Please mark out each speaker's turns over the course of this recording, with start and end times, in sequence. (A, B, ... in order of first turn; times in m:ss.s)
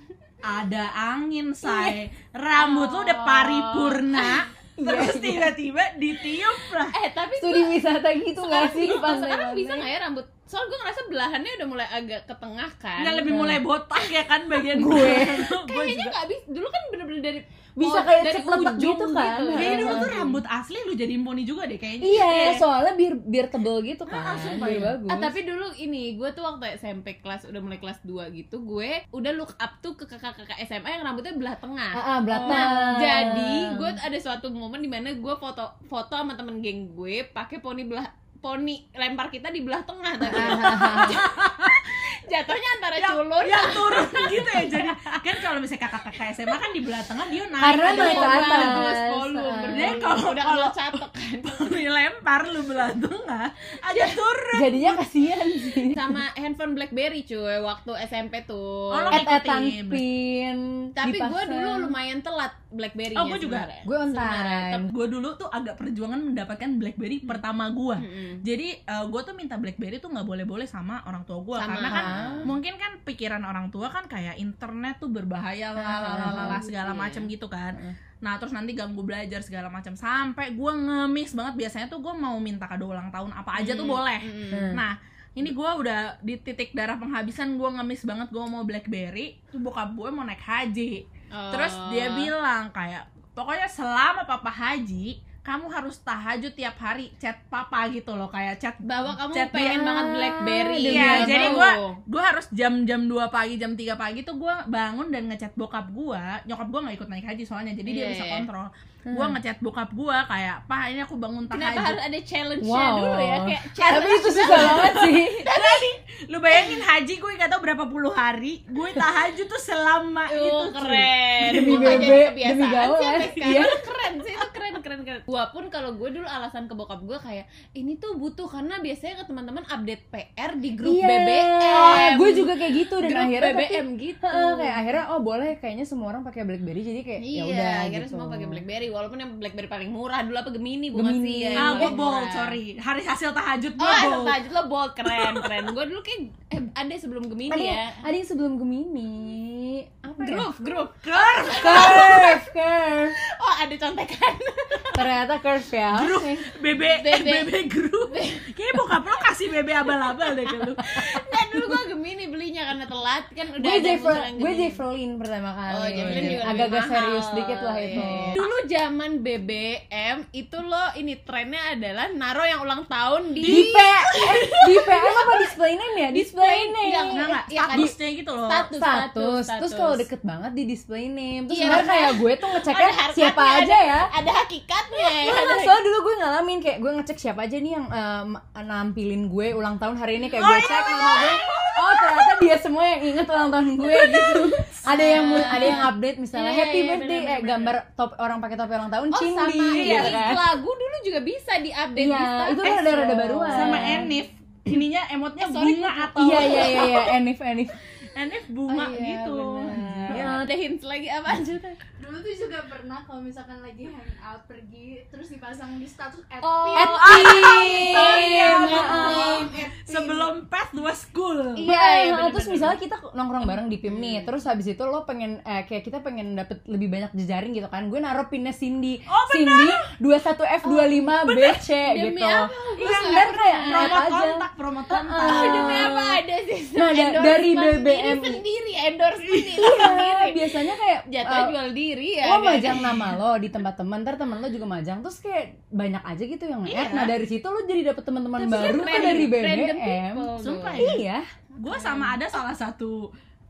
0:00.4-0:07.0 A
0:01.6-0:02.0 B
0:02.6-0:04.4 B
0:04.8-0:05.5 C
0:06.9-0:07.8 B
0:07.4-0:09.9 C
0:08.4-0:13.3 B
0:13.0-0:16.2 A
0:13.2-0:13.6 C
0:14.7-0:15.5 C
0:15.7-0:20.4 B
0:17.8-0:20.2 C
0:19.6-0:22.6 A
0:22.0-0:25.3 C
0:24.1-0:24.9 A
0:24.4-0:41.2 B
0:31.9-0:34.0 C
0:32.3-0:32.7 A
0:40.2-0:41.2 C
0:40.4-0:42.0 A
0:41.9-0:44.8 B
0:43.0-0:49.0 A
0:47.6-0:50.0 C
0:47.8-0:51.8 B
0:49.6-0:55.0 A
0:53.9-0:54.2 B
0:54.5-0:56.2 C
0:55.8-0:59.2 B
0:58.9-1:00.0 A
0:59.1-1:01.9 C
1:01.0-1:04.8 B
1:03.1-1:03.7 A
1:03.8-1:04.9 C
1:04.9-1:39.9 A
1:08.0-1:08.4 B
1:11.6-1:12.5 B
1:11.8-1:12.5 C
1:15.8-1:16.6 C
1:16.0-1:17.3 B
1:23.6-1:24.7 B
1:24.5-1:24.8 C
1:31.3-1:32.3 B
1:38.8-1:42.0 B
1:39.6-1:41.7 C
1:40.9-1:52.0 A
1:47.8-1:48.4 B
1:49.1-1:49.4 C
1:51.5-1:55.9 B
1:52.6-1:55.5 C
1:54.4-2:02.2 A
1:56.5-1:56.8 B
2:00.3-2:14.8 B
2:01.4-2:03.8 C
2:10.8-2:18.6 C
2:17.2-2:22.6 B
2:20.9-2:22.0 C
2:21.6-2:24.4 A
2:23.8-2:28.0 B
2:25.0-2:25.6 A
2:27.5-2:30.5 C
2:30.2-2:32.4 B
2:30.9-2:32.1 A
2:31.6-2:33.2 C
2:33.2-2:35.1 B
2:35.0-2:36.4 C
2:35.9-2:41.6 A
2:36.9-2:37.5 B
2:38.1-2:38.5 B
2:39.8-2:44.8 B
2:43.6-2:48.4 C
2:45.7-2:55.5 B
2:46.0-2:46.5 A
2:47.9-2:48.5 A
2:53.4-2:55.1 A
2:53.4-2:57.9 C
2:56.2-3:00.0 B
2:57.1-2:58.7 A
2:58.7-3:04.1 C
3:01.5-3:05.8 B
3:01.7-3:02.0 A
3:05.1-3:20.4 C
3:10.4-3:12.2 A
3:13.8-3:17.7 B
3:14.7-3:15.8 A
3:19.1-3:24.1 B
3:19.7-3:20.2 A
3:22.0-3:24.1 C
3:23.5-3:26.9 A
3:25.4-3:27.2 B
3:26.2-3:27.8 C
3:28.1-3:30.4 A
3:28.7-3:31.8 B
3:29.7-3:30.5 C
3:32.0-3:36.5 D
3:36.4-3:40.3 B
3:36.7-3:41.7 A
3:36.7-3:39.6 C
3:41.6-3:42.7 B
3:41.6-3:56.2 C
3:43.9-3:44.3 B
3:49.1-3:49.9 A
3:50.6-3:54.0 B
3:51.3-3:51.6 A
3:52.8-3:55.9 A
3:55.2-4:00.6 B
3:56.7-3:58.4 C
3:59.2-3:59.8 A
3:59.6-4:01.5 C
4:01.1-4:03.0 B
4:02.2-4:11.2 C
4:06.6-4:07.1 A
4:08.4-4:10.8 B
4:08.8-4:09.3 A
4:10.4-4:11.0 A
4:11.6-4:13.1 A
4:11.7-4:12.2 B